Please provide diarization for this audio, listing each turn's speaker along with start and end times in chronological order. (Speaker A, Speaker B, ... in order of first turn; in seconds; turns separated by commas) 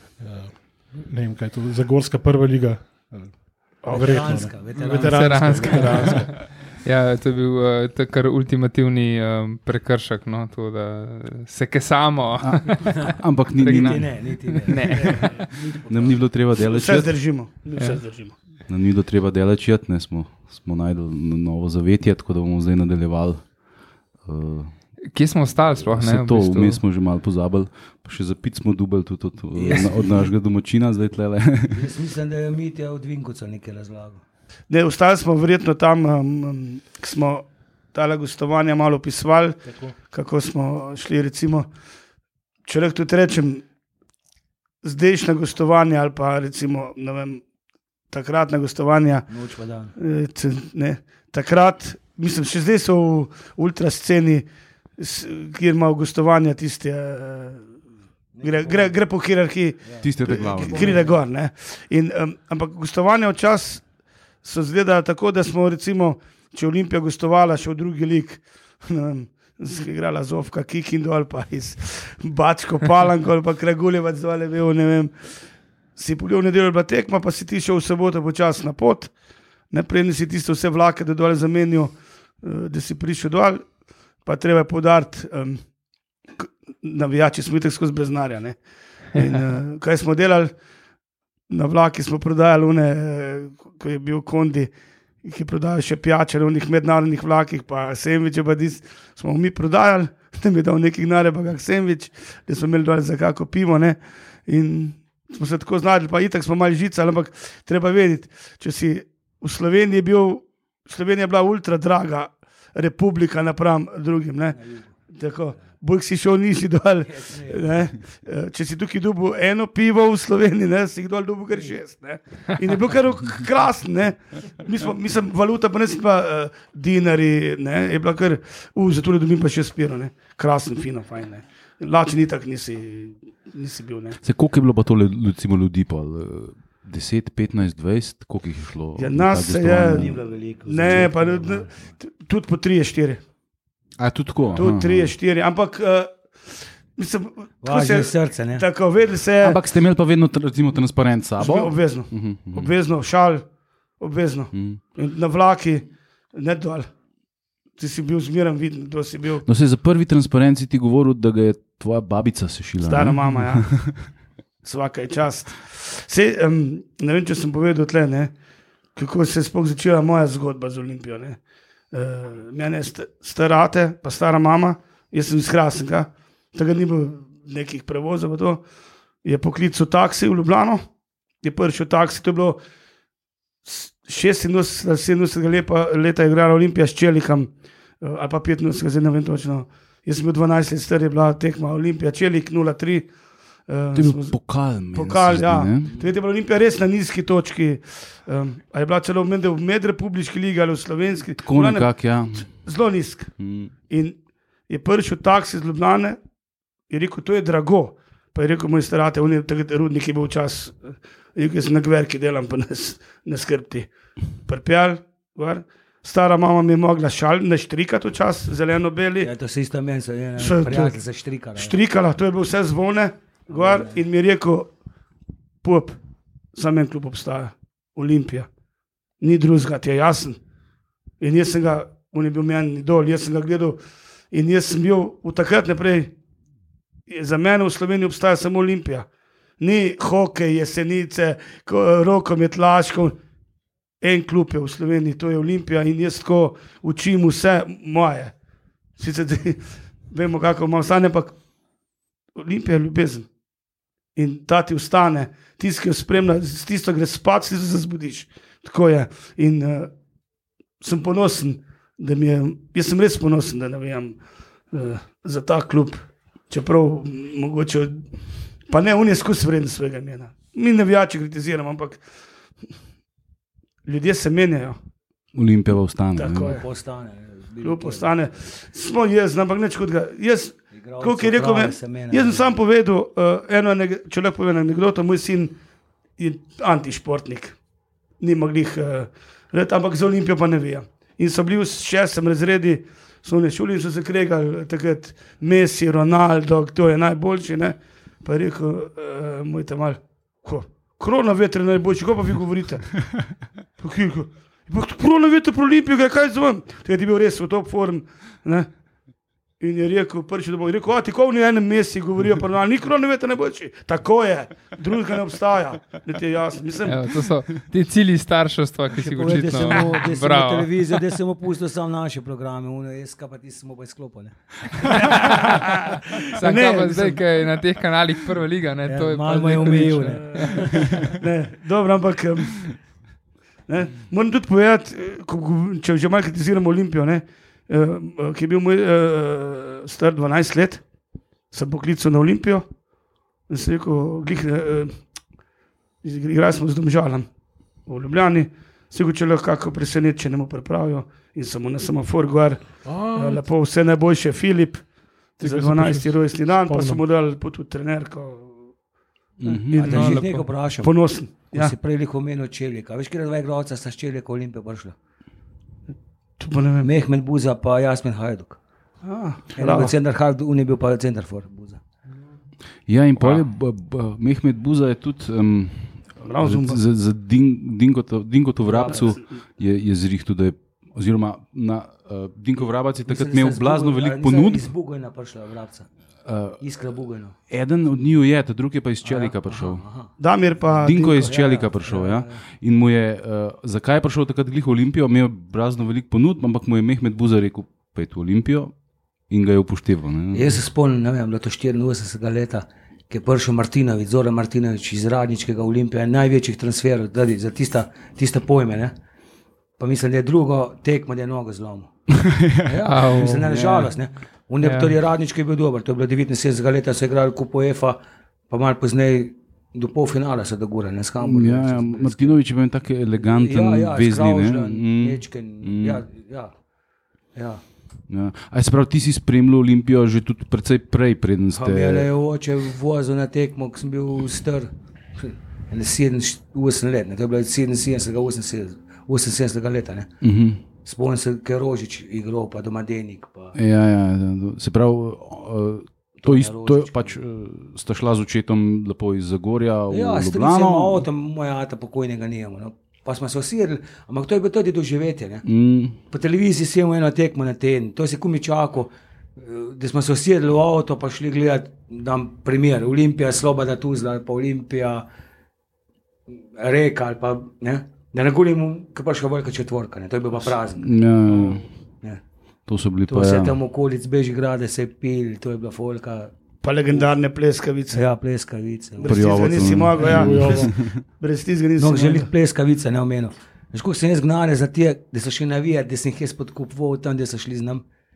Speaker A: 0.2-6.3, Speaker B: 3.8-4.2, Speaker C: 3.9-6.2, Speaker D: 5.0-15.5, Speaker E: 12.4-14.4, Speaker C: 13.6-15.3, Speaker A: 15.0-16.2, Speaker E: 15.9-17.2, Speaker B: 16.6-18.3, Speaker E: 18.7-23.6, Speaker E: 24.2-25.0, Speaker D: 25.1-26.8, Speaker E: 25.8-31.9, Speaker C: 29.6-30.3, Speaker C: 31.7-34.2, Speaker B: 34.7-41.7, Speaker A: 39.7-39.9, Speaker B: 42.6-43.6, Speaker B: 44.8-47.4, Speaker B: 48.1-49.3, Speaker C: 49.3-49.9, Speaker B: 50.0-57.7, Speaker C: 58.4-59.0, Speaker B: 58.4-63.9, Speaker C: 59.8-61.2, Speaker E: 60.0-61.1, Speaker B: 64.4-75.1, Speaker B: 76.0-79.1, Speaker B: 79.7-83.7, Speaker B: 84.2-85.6, Speaker B: 86.4-88.6, Speaker B: 89.1-90.5, Speaker B: 91.5-134.2, Speaker C: 114.5-114.9, Speaker C: 117.1-117.8, Speaker E: 134.2-140.2, Speaker B: 139.0-143.2, Speaker C: 139.9-141.9, Speaker E: 140.8-141.1, Speaker E: 144.0-145.1, Speaker B: 144.6-149.6, Speaker C: 147.6-148.7, Speaker E: 149.4-152.7, Speaker B: 151.4-153.4, Speaker B: 154.0-156.9, Speaker E: 154.5-154.8, Speaker B: 157.8-159.4, Speaker E: 159.4-163.9, Speaker B: 162.8-164.1, Speaker B: 164.6-168.3, Speaker B: 168.9-171.4, Speaker B: 171.9-178.6, Speaker B: 179.2-180.8, Speaker B: 181.4-182.6, Speaker B: 183.7-193.2, Speaker B: 193.7-203.4, Speaker E: 193.9-195.9, Speaker E: 201.4-202.7, Speaker E: 203.4-203.7, Speaker B: 203.9-206.2, Speaker B: 206.9-213.9, Speaker B: 214.4-219.3, Speaker C: 219.2-221.8, Speaker B: 220.4-221.0, Speaker B: 221.6-224.7, Speaker C: 223.5-224.0, Speaker B: 225.6-226.0, Speaker B: 226.6-228.5, Speaker B: 229.2-230.4, Speaker B: 231.2-236.1, Speaker B: 237.1-239.1, Speaker B: 239.6-243.2, Speaker B: 244.0-248.3, Speaker B: 249.0-251.4, Speaker B: 252.3-253.3, Speaker B: 254.2-259.9, Speaker B: 260.8-264.2, Speaker B: 264.7-268.1, Speaker B: 268.7-272.0, Speaker B: 273.9-274.8, Speaker E: 275.3-276.6, Speaker B: 276.2-276.7, Speaker C: 276.3-278.3, Speaker B: 277.6-285.6, Speaker C: 280.7-282.6, Speaker B: 286.2-287.6, Speaker B: 288.2-303.3, Speaker B: 303.8-308.7, Speaker B: 309.6-317.0, Speaker D: 316.9-320.7, Speaker C: 319.0-325.6, Speaker B: 325.0-327.2, Speaker D: 326.4-331.0, Speaker C: 328.9-331.1, Speaker B: 330.2-332.8, Speaker B: 333.7-340.8, Speaker B: 341.5-342.7, Speaker B: 343.5-345.1, Speaker B: 346.0-347.3, Speaker B: 347.9-358.7, Speaker A: 352.9-353.4, Speaker A: 355.4-357.0, Speaker E: 359.4-360.2, Speaker C: 359.5-365.0, Speaker B: 359.7-360.2, Speaker D: 359.9-360.5, Speaker B: 360.8-361.7, Speaker B: 366.4-366.9, Speaker C: 366.8-368.6, Speaker B: 369.0-370.0, Speaker C: 369.6-371.8, Speaker E: 372.9-384.7, Speaker B: 376.2-376.8, Speaker C: 378.6-379.2, Speaker C: 383.1-385.9, Speaker E: 386.3-386.6, Speaker C: 386.6-387.4, Speaker E: 387.5-389.9, Speaker C: 389.1-390.2, Speaker B: 390.2-391.4, Speaker E: 390.8-398.8, Speaker C: 390.9-392.4, Speaker E: 399.3-400.6, Speaker C: 400.3-408.9, Speaker C: 409.8-411.9, Speaker E: 412.2-413.9, Speaker C: 412.6-418.0, Speaker D: 412.9-413.5, Speaker D: 414.6-414.9, Speaker C: 418.5-422.4, Speaker E: 421.2-426.0, Speaker C: 423.2-426.5, Speaker C: 427.4-427.6, Speaker E: 428.1-432.1, Speaker C: 431.5-440.1, Speaker E: 440.2-440.6, Speaker C: 440.7-443.6, Speaker E: 443.6-451.1, Speaker C: 446.2-447.2, Speaker C: 449.9-455.5, Speaker E: 455.4-456.0, Speaker C: 456.1-465.1, Speaker C: 466.3-472.2, Speaker E: 470.8-471.6, Speaker B: 471.3-471.6, Speaker E: 472.7-473.6, Speaker C: 473.1-476.3, Speaker B: 476.6-478.1, Speaker C: 477.9-480.7, Speaker B: 479.0-482.3, Speaker E: 479.0-481.0, Speaker A: 480.0-480.7, Speaker C: 481.8-487.9